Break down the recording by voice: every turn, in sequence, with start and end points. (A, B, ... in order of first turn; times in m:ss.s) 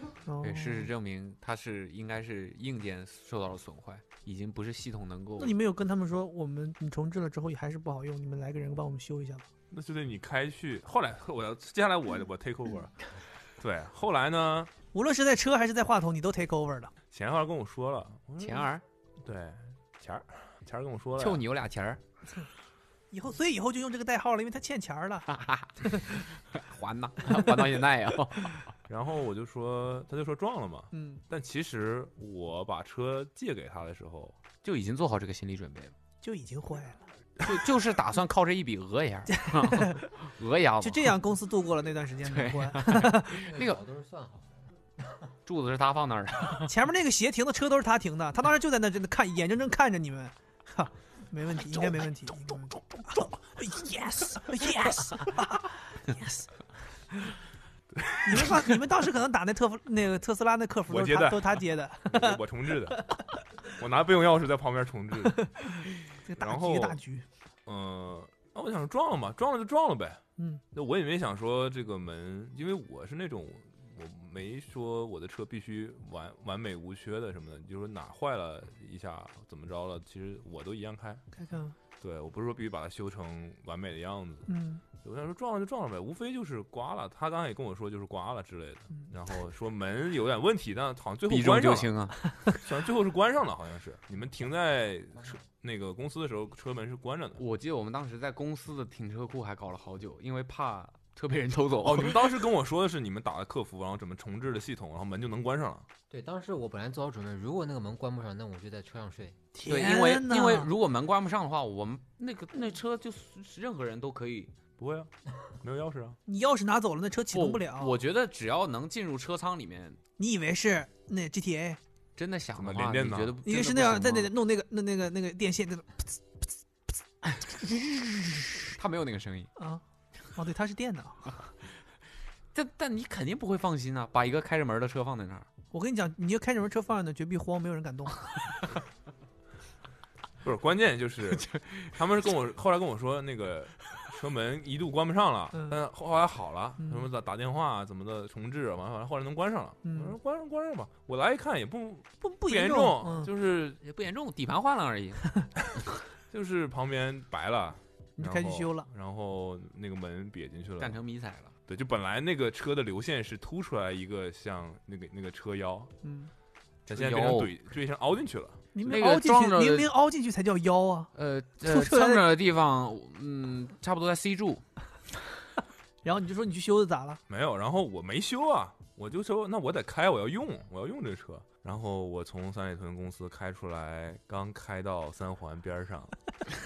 0:00.3-0:00.9 A
0:00.4-0:05.6 B
0:05.4-0:09.5 A
0:09.7-0:13.0 C
0:13.6-0:14.7 C
0:14.9-0:16.9 A
0:17.1-0:21.4 C
0:18.4-0:18.8 B
0:21.2-0:22.0 B
0:23.1-0:25.3 A
0:25.3-0:28.7 B
0:28.9-0:34.4 C
0:30.9-0:31.2 A
0:34.6-0:36.0 B
0:36.2-0:37.1 A
0:37.4-0:41.2 B
0:39.4-0:40.1 A
0:40.8-0:43.4 A
0:42.2-0:43.8 B
0:43.2-0:45.3 D
0:45.5-0:46.7 B
0:46.6-0:56.5 A
0:51.7-0:55.1 B
0:57.9-0:58.4 C
0:58.2-1:02.4 A
1:00.9-1:03.0 C
1:03.7-1:05.5 C
1:05.4-1:07.2 A
1:06.4-1:07.0 C
1:07.7-1:10.2 C
1:10.4-1:10.6 A
1:10.7-1:21.2 C
1:21.3-1:21.8 A
1:22.0-1:31.9 C
1:24.5-1:24.8 A
1:31.3-1:32.2 B
1:32.5-1:37.4 C
1:37.4-1:42.4 B
1:41.8-1:45.9 C
1:46.1-1:49.4 D
1:49.5-1:50.7 A
1:49.7-1:54.5 B
1:54.8-1:56.2 C
1:56.3-1:58.0 A
1:57.3-2:00.0 B
2:00.2-2:01.8 A
2:02.2-2:04.3 B
2:02.6-2:03.4 C
2:03.5-2:06.5 A
2:08.6-2:09.5 B
2:09.6-2:09.8 A
2:10.3-2:11.4 A
2:12.5-2:15.5 B
2:15.7-2:18.2 A
2:20.4-2:33.8 C
2:21.3-2:22.0 B
2:25.5-2:25.8 A
2:26.8-2:27.0 A
2:29.8-2:30.2 A
2:32.2-2:33.3 A
2:33.8-2:35.3 B
2:36.3-2:41.0 C
2:38.2-2:38.9 A
2:40.8-2:41.5 B
2:41.7-2:45.9 C
2:46.0-2:46.3 A
2:46.9-2:47.5 B
2:46.9-2:48.7 C
2:48.8-2:51.1 A
2:48.9-2:49.9 B
2:51.2-2:54.6 B
2:51.6-2:52.3 A
2:56.0-2:57.2 A
2:57.3-3:06.2 C